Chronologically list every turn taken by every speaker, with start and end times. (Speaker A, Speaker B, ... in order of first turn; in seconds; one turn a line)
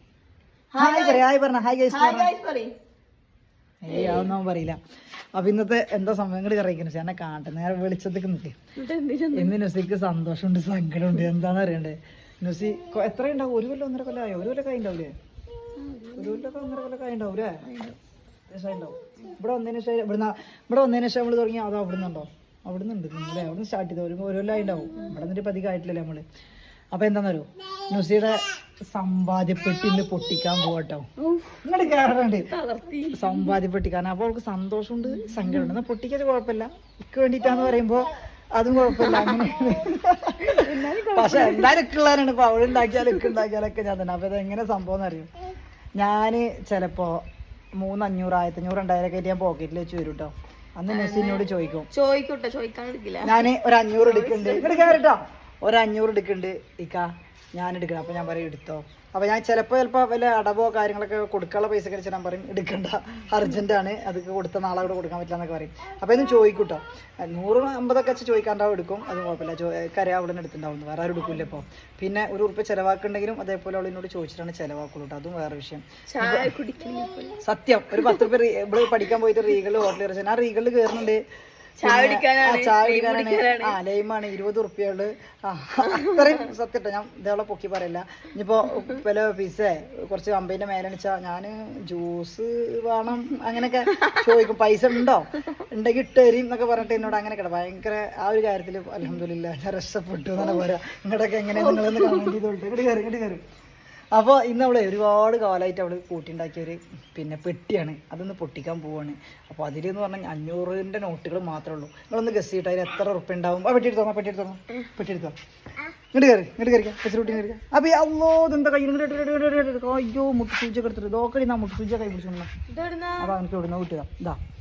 Speaker A: 0.7-1.2
Speaker B: 0.8-2.3
Speaker A: 1.9-2.7
Speaker B: 3.8-4.8
Speaker A: 3.9-4.3
Speaker B: 5.3-8.5
Speaker A: 8.8-9.5
Speaker B: 9.3-15.1
Speaker A: 15.8-16.4
Speaker B: 16.2-17.6
Speaker A: 17.6-18.0
Speaker B: 18.5-26.2
Speaker B: 26.9-28.4
Speaker B: 28.9-31.1
Speaker A: 31.2-31.6
Speaker B: 31.6-32.5
Speaker A: 32.5-33.6
Speaker B: 33.1-45.3
Speaker A: 35.2-35.7
Speaker A: 38.9-39.5
Speaker A: 40.4-41.8
Speaker A: 42.9-43.3
Speaker B: 46.0-47.2
Speaker B: 47.8-51.9
Speaker A: 50.9-55.0
Speaker B: 53.2-76.5
Speaker A: 76.1-77.4
Speaker B: 77.4-81.2
Speaker A: 78.0-78.2
Speaker A: 81.8-83.8
Speaker B: 81.8-103.4
Speaker A: 85.8-86.4
Speaker A: 93.8-94.4
Speaker A: 101.5-102.4
Speaker B: 104.1-115.3
Speaker B: 116.1-122.5
Speaker A: 122.7-123.3
Speaker B: 123.2-124.4